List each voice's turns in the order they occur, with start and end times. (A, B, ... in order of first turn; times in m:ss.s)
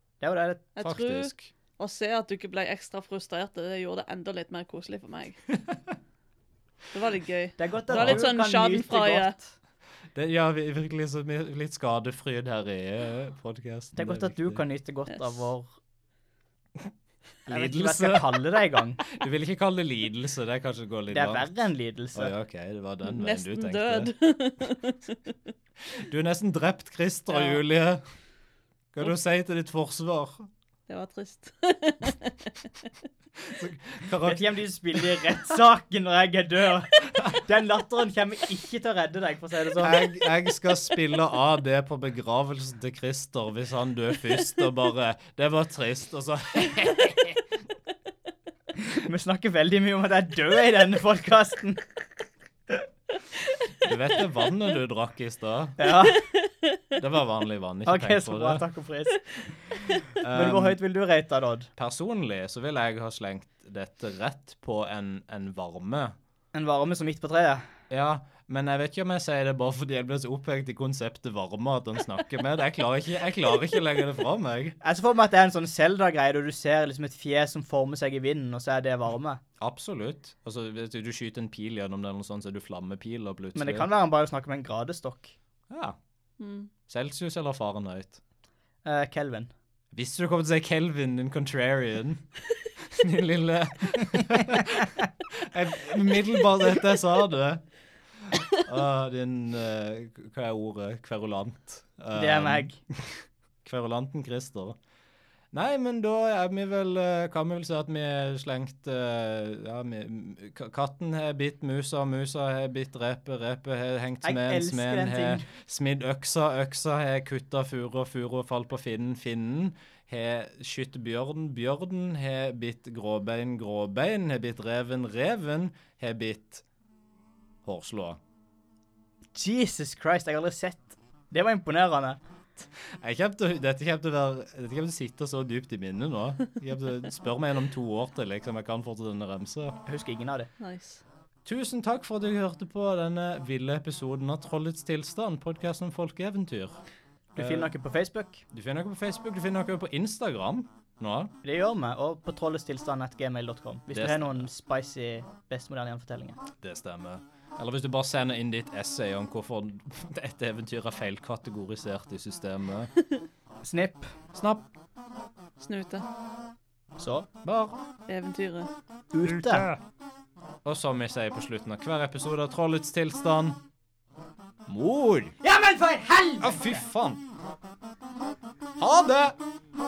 0:00.2-0:00.7 A
0:00.8-0:05.4 B
0:00.8-0:01.5 C
0:06.9-0:09.3 B
0:07.6-0:09.5 A
0:07.9-0:08.3 C
0:10.1-0:14.6 C
0:14.0-0:15.7 A
0:17.4-0:18.5 C
0:17.5-0:19.0 A
0:19.0-0:21.5 C
0:21.1-0:22.3 A
0:22.1-0:24.1 C
0:23.0-0:25.3 B
0:25.9-0:28.0 C
0:28.9-0:30.5 C
0:30.9-0:32.7 B
0:33.4-0:35.0 C
0:34.2-0:40.0 A
0:39.8-0:47.4 C
0:48.8-0:51.8 A
0:53.8-0:55.9 C
0:55.8-0:56.2 A
0:56.2-0:56.8 B
0:56.9-0:58.6 C
0:57.8-0:59.2 A
1:00.2-1:00.8 C
1:00.3-1:01.7 A
1:01.8-1:06.1 C
1:06.5-1:07.6 A
1:07.9-1:14.8 C
1:14.8-1:19.4 A
1:19.6-1:23.9 C
1:23.5-1:25.3 A
1:25.7-1:26.0 C
1:26.4-1:26.7 B
1:26.9-1:28.2 C
1:28.8-1:29.5 A
1:29.9-1:32.2 C
1:32.8-1:37.6 C
1:38.2-1:44.8 C
1:42.1-1:42.8 A
1:45.5-2:06.6 C
1:54.2-1:55.5 A
2:07.6-2:08.2 C
2:09.3-2:12.2 A
2:12.8-2:19.8 C
2:19.9-2:20.5 A
2:20.6-2:21.0 B
2:21.4-2:26.8 C
2:27.3-2:28.4 A
2:27.4-2:27.7 C
2:28.5-2:31.3 C
2:31.4-2:36.4 A
2:33.9-2:34.5 C
2:36.6-2:42.9 C
2:43.6-2:44.1 A
2:44.3-2:44.7 C
2:45.6-2:46.0 B
2:47.0-2:47.3 A
2:47.4-2:47.8 C
2:48.1-2:48.7 B
2:49.1-2:49.7 A
2:49.2-2:49.8 C
2:50.6-2:53.6 C
2:54.7-2:55.4 C
2:55.4-2:56.8 A
2:56.4-2:57.2 C
2:58.8-2:59.4 C